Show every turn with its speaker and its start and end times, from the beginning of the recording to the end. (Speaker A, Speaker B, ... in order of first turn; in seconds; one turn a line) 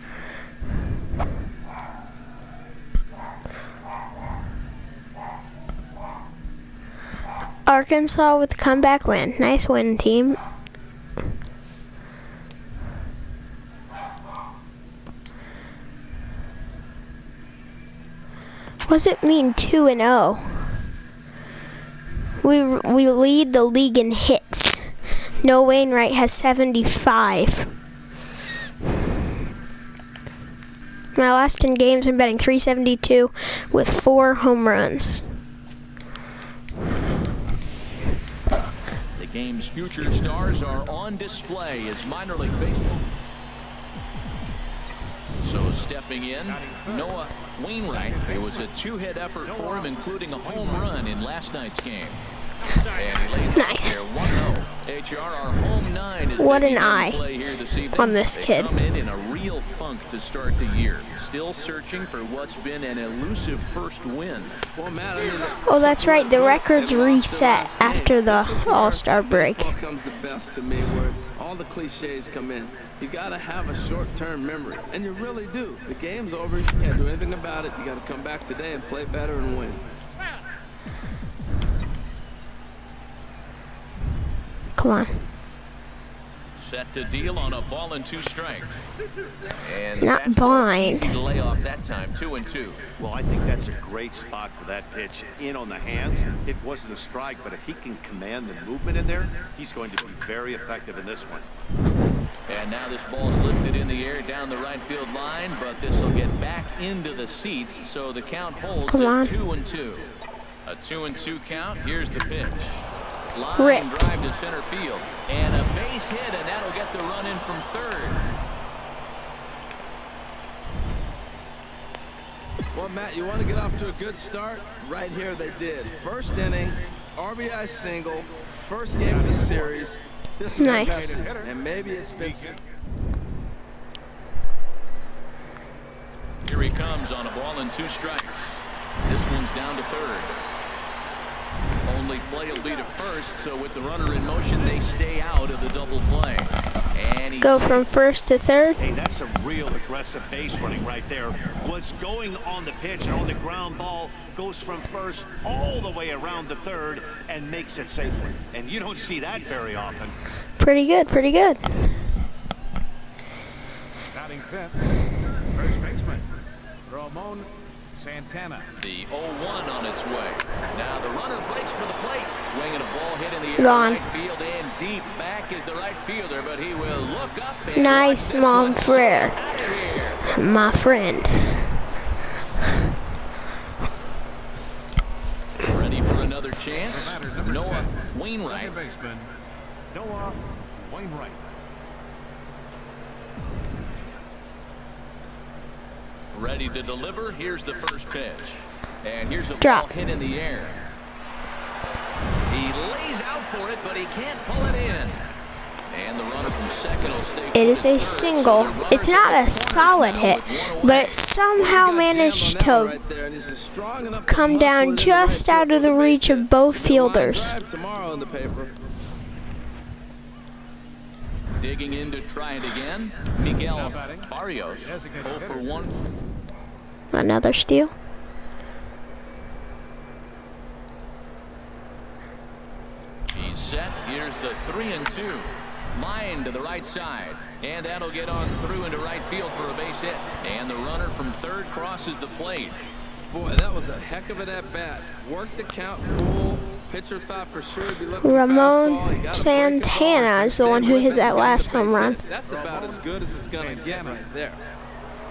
Speaker A: 7.7-10.4
Speaker A: 18.9-20.8
Speaker A: 22.4-27.7
Speaker A: 31.1-35.3
Speaker B: 39.1-43.0
Speaker B: 45.4-52.2
Speaker C: 46.5-47.2
Speaker C: 48.0-48.4
Speaker C: 49.5-49.9
Speaker C: 50.5-50.8
Speaker B: 52.8-64.6
Speaker A: 53.5-54.1
Speaker A: 56.4-57.2
Speaker A: 58.0-58.8
Speaker D: 64.8-79.9
Speaker A: 65.7-69.7
Speaker A: 84.8-85.2
Speaker B: 86.6-88.8
Speaker B: 89.6-92.8
Speaker A: 90.0-91.1
Speaker E: 93.0-101.5
Speaker B: 102.5-110.2
Speaker A: 108.9-109.3
Speaker B: 110.7-118.2
Speaker A: 113.6-114.1
Speaker D: 122.7-132.6
Speaker C: 129.1-129.8
Speaker A: 130.6-131.2
Speaker C: 130.6-131.5
Speaker C: 132.2-132.5
Speaker B: 136.4-140.4
Speaker B: 141.8-147.8
Speaker A: 147.4-148.8
Speaker E: 148.8-160.2
Speaker A: 160.6-162.0
Speaker C: 164.1-164.9
Speaker C: 165.5-166.3
Speaker C: 166.9-168.7
Speaker B: 168.8-180.2
Speaker A: 173.6-174.0
Speaker A: 177.8-179.4
Speaker A: 180.2-181.8
Speaker B: 185.6-188.8
Speaker C: 186.9-187.9
Speaker C: 188.4-189.3
Speaker C: 189.9-191.6
Speaker B: 196.3-200.9
Speaker A: 199.6-199.9
Speaker B: 202.5-205.2
Speaker B: 205.9-211.3
Speaker A: 207.6-212.9
Speaker D: 211.6-218.7
Speaker A: 214.3-217.6
Speaker B: 221.6-225.9
Speaker C: 223.7-224.3
Speaker C: 224.8-225.7
Speaker A: 227.1-227.9
Speaker B: 233.3-242.8
Speaker D: 243.3-254.6
Speaker A: 248.2-252.2
Speaker C: 252.4-254.2